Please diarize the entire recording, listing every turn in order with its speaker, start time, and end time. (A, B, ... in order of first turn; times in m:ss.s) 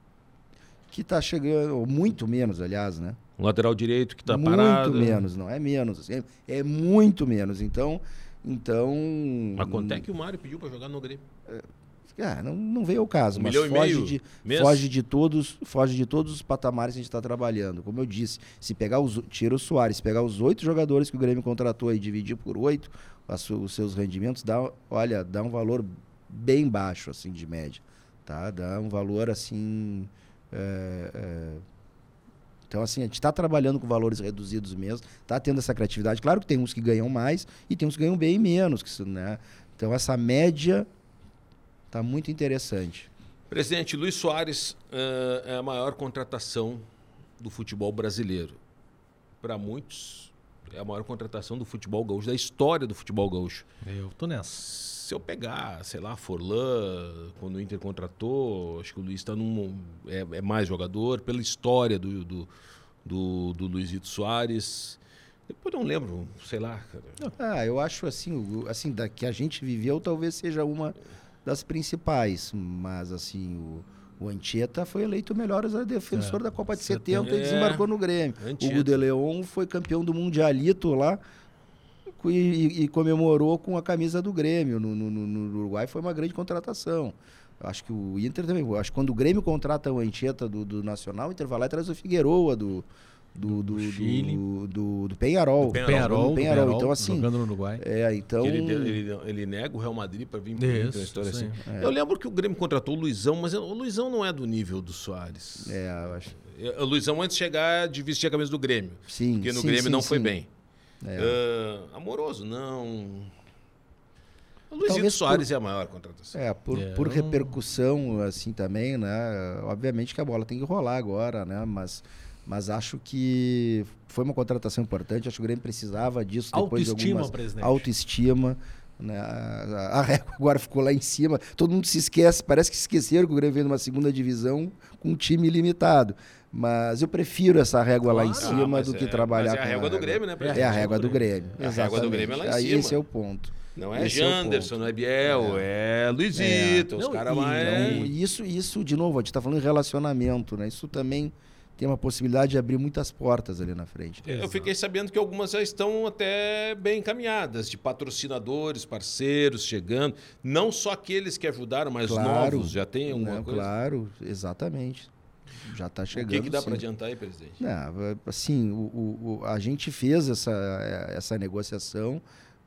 0:00.9-0:03.2 A
0:03.4-0:05.2 B
0:04.3-0:10.0 A
0:09.6-0:11.2 B
0:11.5-0:31.6 A
0:13.3-0:14.9 B
0:32.7-0:40.9 A
0:41.9-0:43.1 A
0:43.5-0:46.8 B
0:47.4-0:48.6 B
0:49.4-0:53.7 B
0:53.8-0:54.6 C
0:54.6-1:02.5 B
1:03.0-1:07.2 B
1:07.4-1:21.2 A
1:16.1-1:17.3 C
1:17.2-1:17.8 B
1:18.4-1:19.0 B
1:22.1-1:39.0 A
1:33.5-1:34.4 C
1:35.6-1:37.8 C
1:35.7-1:36.2 B
1:38.4-1:45.8 B
1:40.6-1:41.6 C
1:41.6-1:42.0 A
1:45.6-1:46.3 A
1:46.4-1:50.5 B
1:49.1-1:50.3 A
1:51.0-1:51.4 A
1:51.2-1:53.3 B
1:54.7-1:56.4 B
1:54.8-1:55.5 A
1:56.3-2:24.7 A
1:56.7-1:57.5 C
2:06.5-2:07.9 C
2:18.0-2:18.6 C
2:18.4-2:23.0 B
2:20.4-2:20.9 C
2:23.8-2:28.1 B
2:25.2-2:25.7 A
2:26.3-2:26.9 A
2:27.0-2:28.1 C
2:27.6-2:34.3 A
2:34.2-2:43.7 B
2:34.3-2:34.7 C
2:42.0-2:45.1 A
2:45.6-2:46.8 A
2:46.1-2:47.6 B
2:47.6-2:52.2 A